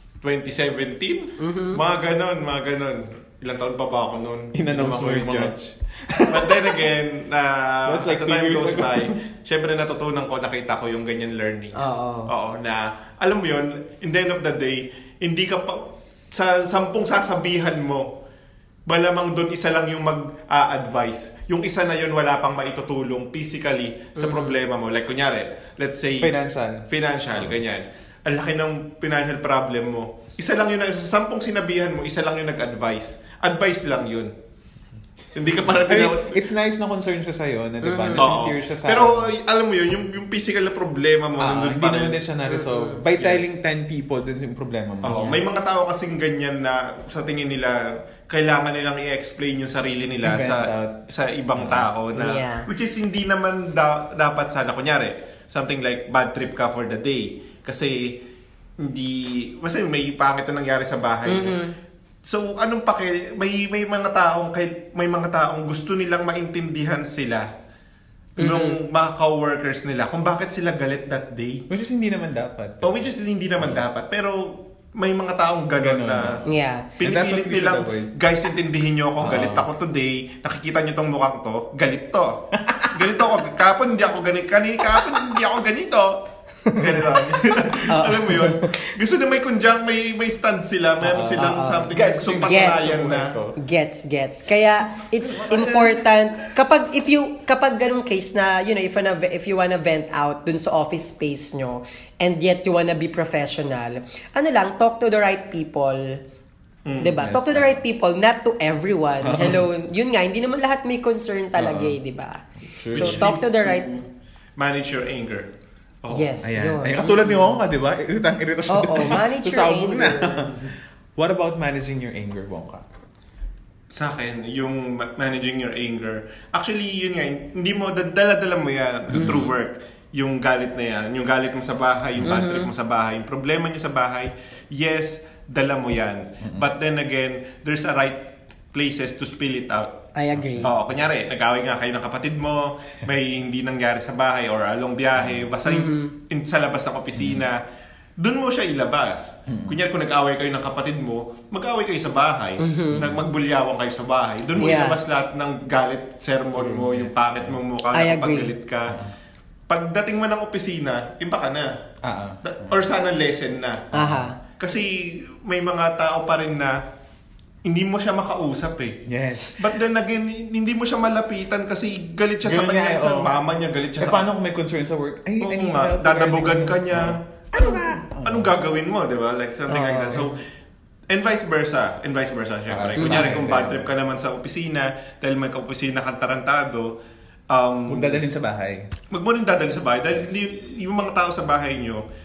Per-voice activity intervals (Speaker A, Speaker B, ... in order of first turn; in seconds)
Speaker A: 0.2-5.5, 6.3-18.1, 18.9-26.4, 26.9-34.3, 35.3-36.4, 38.1-42.2, 43.1-43.4, 45.0-58.2, 58.8-61.6, 62.2-67.5, 68.4-71.7, 72.8-76.4, 77.0-82.4, 82.9-93.3, 95.4-95.9, 106.9-107.2, 112.9-115.5, 116.0-116.4, 123.9-139.9, 140.6-147.6, 148.2-159.0, 159.7-161.7, 162.4-163.9, 164.6-166.8, 167.7-169.0, 169.6-174.2, 175.4-180.4, 181.1-187.0, 187.5-188.2, 189.1-192.0
Speaker B: 1.4-1.8, 11.7-12.3, 24.2-24.6, 37.8-38.3, 42.5-43.0, 45.1-45.4, 52.2-52.7, 61.3-61.7, 68.4-68.8, 76.5-76.9, 87.9-88.9, 91.2-106.2, 107.0-113.9, 116.1-117.6, 118.7-120.5, 129.2-129.5, 132.2-132.7, 140.2-140.7, 145.7-146.1, 152.6-153.1, 154.6-155.0, 157.9-158.5, 163.9-164.4, 179.7-180.3, 183.0-183.4
Speaker C: 4.5-6.9, 7.9-9.2, 26.2-27.6, 35.7-39.3, 41.4-45.4, 50.2-51.0, 51.5-51.9, 71.7-73.0, 75.8-76.5, 77.0-78.1, 79.2-79.7, 82.5-83.1, 84.9-85.3, 86.8-87.8, 91.0-93.6, 95.3-95.8, 107.2-107.8, 109.2-109.6, 111.6-112.0, 112.7-113.3, 116.4-122.9, 129.1-129.4, 136.4-136.7, 140.3-141.0, 145.2-145.5, 147.2-147.5, 149.5-149.8, 152.9-153.2, 156.6-157.6, 158.9-159.1, 162.0-162.9, 163.9-164.3, 169.1-169.7, 172.4-173.4, 174.0-178.6, 182.7-183.9, 187.9-188.9